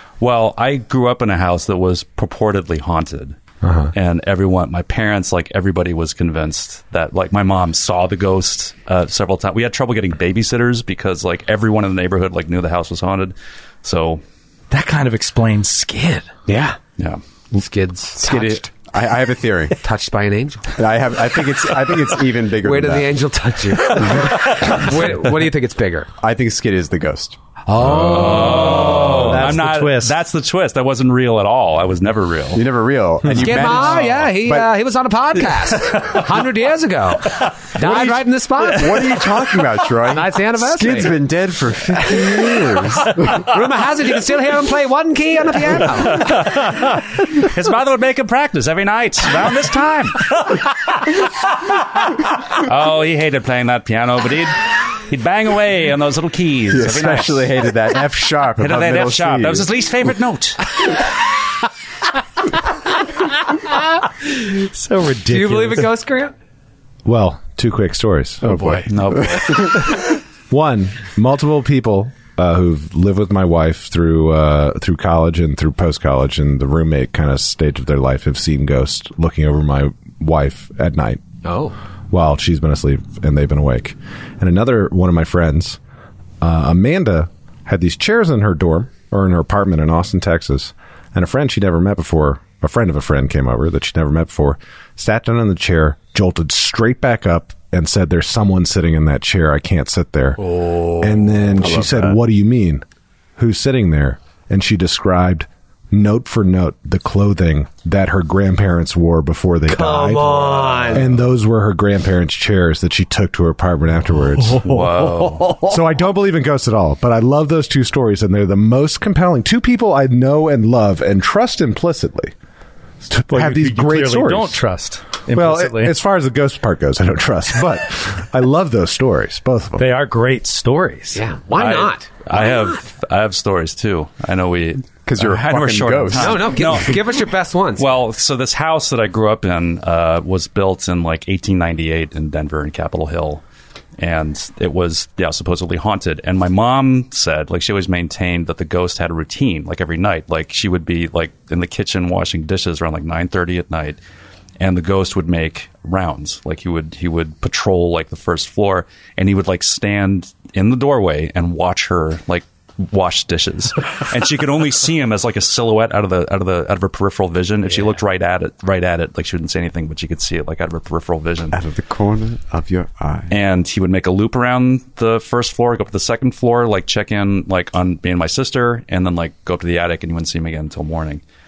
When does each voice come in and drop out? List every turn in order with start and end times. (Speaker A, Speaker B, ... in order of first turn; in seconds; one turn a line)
Speaker A: 0.2-3.4
Speaker B: 3.6-3.9
Speaker A: 3.9-14.2
Speaker C: 14.7-16.3
Speaker D: 16.5-16.8
Speaker D: 17.5-18.6
Speaker E: 18.2-19.8
Speaker D: 19.8-20.7
Speaker E: 20.7-23.2
Speaker D: 22.6-26.1
Speaker E: 24.0-24.9
Speaker E: 26.2-27.4
Speaker D: 27.7-29.3
Speaker A: 27.9-32.6
Speaker C: 28.5-30.2
Speaker E: 32.5-34.7
Speaker D: 33.4-39.1
Speaker E: 37.8-43.5
Speaker D: 40.1-41.1
Speaker D: 41.9-46.3
Speaker A: 46.0-57.5
Speaker E: 56.7-59.7
Speaker A: 58.6-60.7
Speaker C: 64.5-65.9
Speaker D: 65.2-66.3
Speaker B: 67.0-68.7
Speaker E: 68.7-69.7
Speaker A: 68.9-69.9
Speaker B: 70.5-81.2
Speaker D: 81.4-81.8
Speaker B: 82.1-85.8
Speaker B: 86.4-102.8
Speaker D: 100.5-101.1
Speaker B: 103.4-114.7
Speaker D: 109.7-111.1
Speaker A: 114.6-115.6
Speaker B: 115.7-122.3
Speaker B: 123.1-124.6
Speaker C: 123.3-126.0
Speaker B: 125.3-129.9
Speaker C: 129.8-131.2
Speaker D: 131.1-132.1
Speaker A: 131.5-137.1
Speaker E: 135.1-136.9
Speaker D: 136.1-137.9
Speaker A: 137.8-143.4
Speaker A: 144.0-154.0
Speaker A: 154.6-171.6
Speaker E: 171.5-173.3
Speaker A: 173.3-181.2